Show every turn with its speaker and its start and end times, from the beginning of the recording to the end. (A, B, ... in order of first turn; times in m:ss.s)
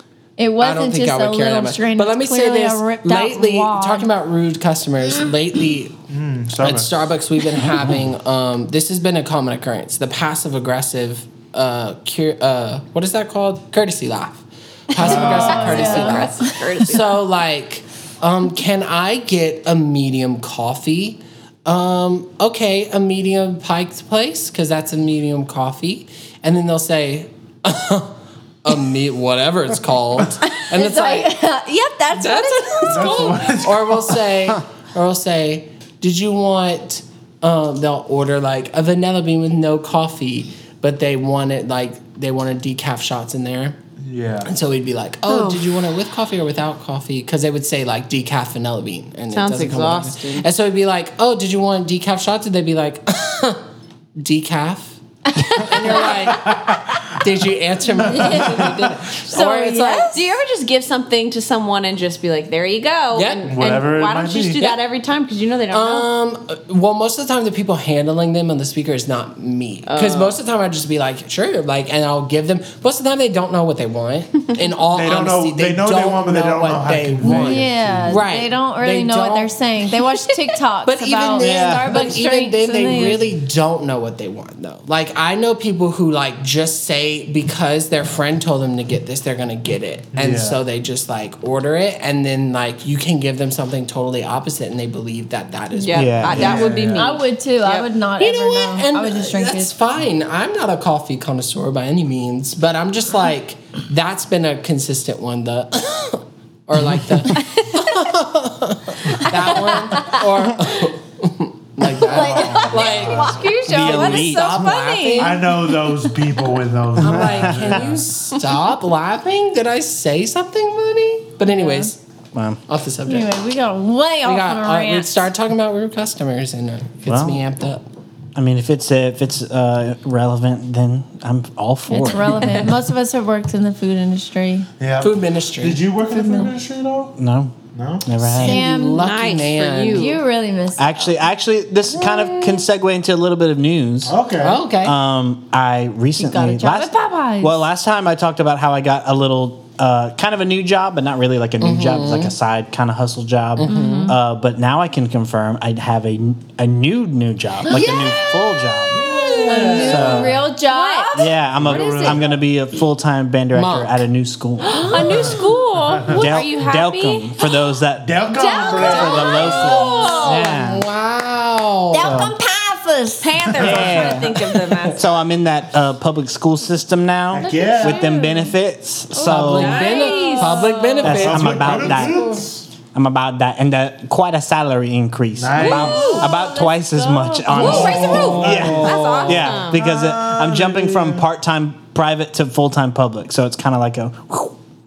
0:00.4-0:04.1 A
0:00.6-0:06.0 B
0:06.1-0:06.9 C
0:06.6-0:31.4 B
0:15.0-0:16.8 A
0:15.0-0:15.9 C
0:15.3-0:17.2 D
0:30.5-0:33.5 A
0:32.1-0:43.8 B
0:32.9-0:34.3 C
0:44.0-0:44.5 C
0:44.4-0:53.6 B
0:45.3-0:45.7 D
0:49.3-0:50.5 D
0:54.2-0:59.3 B
0:55.4-0:56.2 A
0:56.5-0:57.0 C
0:58.0-1:00.2 A
0:58.1-0:58.8 C
0:58.2-1:06.1 D
1:03.1-1:03.5 B
1:03.5-1:04.6 C
1:05.7-1:19.5 B
1:09.9-1:10.4 D
1:14.9-1:18.2 C
1:17.2-1:23.3 A
1:20.8-1:36.8 B
1:21.4-1:22.0 E
1:30.1-1:30.6 C
1:35.7-1:37.9 D
1:35.9-1:36.6 E
1:36.3-1:37.1 C
1:37.0-1:39.8 A
1:38.2-1:55.8 B
1:49.1-1:50.3 A
1:51.9-1:53.6 C
1:51.9-1:55.6 A
1:52.8-1:53.5 D
1:53.6-1:54.7 E
1:55.2-1:58.0 C
1:57.0-2:02.0 B
1:57.0-1:57.9 E
2:01.5-2:01.9 A
2:02.3-2:02.6 E
2:02.7-2:03.3 B
2:03.1-2:05.3 A
2:04.2-2:07.8 B
2:07.1-2:07.4 E
2:08.4-2:12.7 E
2:11.9-2:14.7 A
2:14.8-2:17.2 C
2:15.0-2:15.8 B
2:16.1-2:16.5 A
2:17.2-2:18.6 E
2:17.8-2:18.1 C
2:18.2-2:20.2 B
2:18.4-2:19.1 A
2:19.0-2:20.2 D
2:19.9-2:21.1 A
2:20.8-2:24.2 E
2:22.1-2:22.6 A
2:24.1-2:24.6 C
2:24.4-2:25.0 B
2:24.8-2:39.0 E
2:26.2-2:27.6 A
2:31.6-2:32.3 B
2:33.6-2:34.1 B
2:33.6-2:34.2 A
2:37.7-2:42.3 A
2:37.7-2:38.2 B
2:38.9-2:40.4 C
2:39.0-2:40.2 B
2:39.8-2:40.5 E
2:40.6-2:41.2 D
2:41.2-2:45.3 E
2:41.5-2:42.4 C
2:43.5-2:44.0 B
2:44.6-2:47.4 D
2:44.9-2:45.2 A
2:46.1-2:48.2 E
2:48.0-2:49.6 C
2:48.3-2:50.4 A
2:48.8-2:50.8 E
2:48.9-2:52.3 B
2:48.9-2:50.5 D
2:51.9-2:53.5 A
2:53.2-2:55.1 D
2:53.6-2:59.9 E
2:53.6-2:54.2 C
2:57.3-2:58.1 C
2:57.4-2:58.5 A
2:59.2-3:01.0 A
2:59.2-3:02.5 B
2:59.5-3:01.1 D
3:01.0-3:02.2 E
3:01.0-3:02.6 C
3:02.9-3:14.6 E
3:05.4-3:06.3 C
3:05.6-3:06.3 D
3:05.6-3:08.5 A
3:07.5-3:09.8 D
3:07.5-3:11.2 C
3:07.6-3:09.2 B